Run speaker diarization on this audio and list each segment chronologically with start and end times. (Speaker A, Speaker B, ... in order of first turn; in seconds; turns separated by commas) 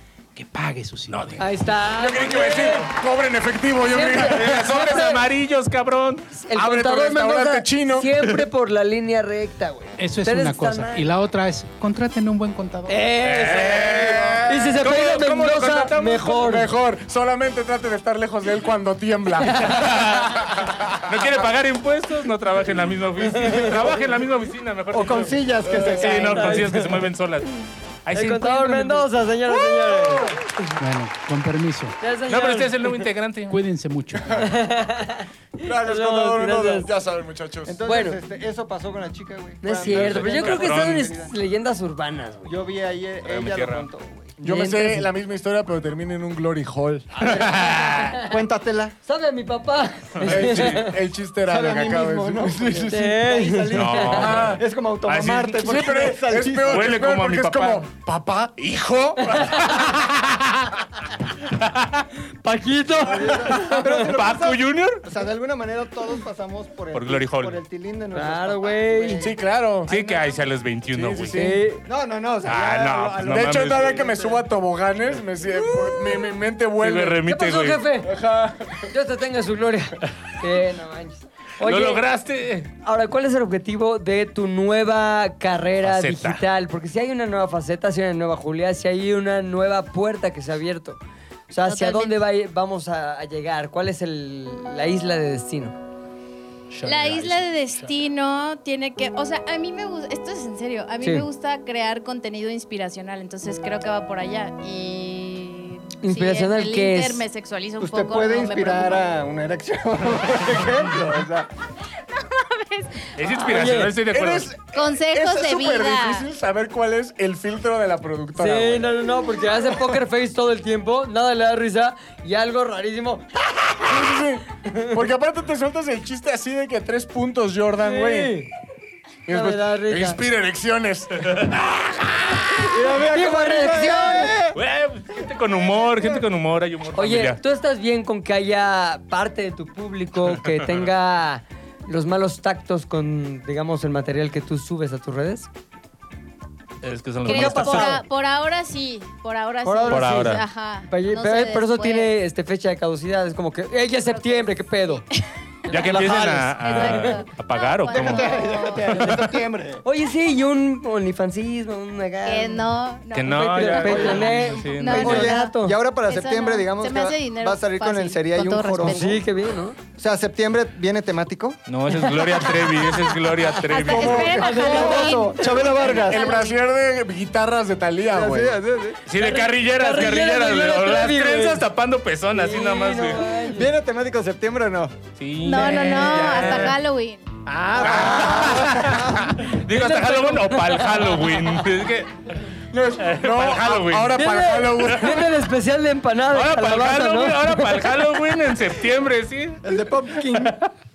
Speaker A: 0.3-1.7, Speaker B: 1.1-1.5, Speaker C: 1.4-2.9, Speaker D: 1.9-5.2, Speaker B: 2.4-2.8, Speaker C: 3.8-5.1, Speaker B: 4.2-6.3, Speaker C: 6.3-11.1, Speaker D: 6.5-8.2, Speaker A: 10.0-13.0, Speaker C: 12.9-16.7, Speaker B: 13.2-16.4, Speaker D: 13.5-21.3, Speaker B: 19.6-29.1, Speaker C: 23.3-23.9, Speaker E: 24.9-26.9, Speaker C: 26.0-27.0, Speaker C: 28.1-30.5, Speaker D: 29.5-30.4, Speaker A: 30.8-31.9, Speaker C: 32.0-32.8, Speaker B: 32.3-33.6, Speaker A: 33.5-34.5, Speaker C: 34.3-36.9, Speaker D: 35.6-37.8, Speaker E: 37.6-41.3, Speaker C: 37.9-38.2, Speaker C: 39.6-42.5, Speaker B: 39.8-41.1, Speaker E: 42.4-44.3, Speaker B: 43.2-43.9, Speaker D: 44.4-47.3, Speaker C: 44.4-45.1, Speaker E: 47.2-49.0, Speaker B: 47.2-48.2, Speaker C: 47.8-48.3, Speaker C: 49.0-51.0, Speaker B: 50.2-50.6, Speaker D: 50.2-53.1, Speaker E: 51.5-57.0, Speaker C: 52.9-54.4, Speaker B: 53.7-55.9, Speaker D: 54.0-54.6, Speaker D: 55.6-59.5, Speaker B: 56.6-57.9, Speaker B: 59.2-60.6, Speaker B: 61.5-62.1, Speaker C: 62.4-64.0, Speaker E: 63.0-70.3, Speaker B: 63.5-65.0, Speaker B: 66.9-67.6, Speaker C: 68.1-69.3, Speaker D: 69.2-69.9, Speaker B: 69.9-71.4, Speaker D: 70.9-71.6, Speaker C: 71.3-71.8, Speaker E: 71.8-74.4, Speaker B: 72.4-74.0, Speaker D: 73.2-77.2, Speaker C: 75.5-76.2, Speaker B: 76.8-77.8, Speaker C: 77.2-78.1, Speaker D: 78.0-78.9, Speaker C: 78.9-82.0, Speaker B: 81.6-82.7, Speaker C: 82.8-91.0, Speaker B: 85.8-86.4, Speaker C: 91.5-95.8, Speaker F: 91.7-92.2, Speaker B: 96.7-97.9, Speaker F: 96.8-109.0, Speaker C: 101.0-101.3, Speaker C: 106.0-107.2, Speaker E: 107.8-111.5, Speaker F: 112.2-113.1, Speaker B: 113.1-114.5, Speaker C: 113.3-113.9, Speaker D: 114.1-118.9, Speaker F: 114.7-116.2, Speaker C: 118.4-125.0, Speaker D: 123.8-128.4, Speaker C: 127.8-128.5, Speaker D: 129.3-132.9, Speaker C: 129.3-130.2, Speaker E: 132.7-134.6, Speaker C: 133.1-134.3, Speaker B: 134.5-137.4, Speaker C: 136.9-145.5, Speaker B: 140.5-140.9, Speaker B: 146.8-148.0, Speaker F: 147.2-152.1, Speaker C: 147.2-148.0, Speaker C: 149.6-155.0, Speaker B: 149.9-150.4, Speaker F: 154.0-159.0, Speaker C: 155.7-157.2, Speaker B: 155.7-159.2, Speaker E: 157.9-159.8, Speaker C: 158.9-159.2, Speaker C: 159.8-162.7, Speaker F: 162.2-165.5, Speaker B: 163.1-165.3, Speaker C: 163.3-165.8, Speaker E: 164.9-169.2, Speaker F: 166.1-169.2, Speaker C: 168.7-169.8, Speaker E: 170.0-171.6, Speaker B: 171.7-174.4, Speaker C: 172.1-172.7, Speaker F: 173.7-176.6, Speaker E: 173.8-176.4, Speaker D: 173.9-174.2, Speaker C: 174.3-175.8, Speaker D: 175.8-178.6, Speaker E: 178.1-179.0, Speaker B: 179.1-183.3, Speaker C: 179.1-181.6, Speaker C: 182.3-183.7, Speaker E: 183.5-184.9, Speaker B: 185.2-186.8, Speaker F: 185.4-187.3, Speaker E: 187.4-189.3, Speaker B: 187.8-192.3, Speaker C: 187.8-188.6, Speaker C: 189.5-191.4, Speaker D: 192.7-195.3, Speaker B: 193.0-194.2, Speaker C: 194.1-198.0, Speaker B: 196.3-200.6, Speaker E: 199.6-200.6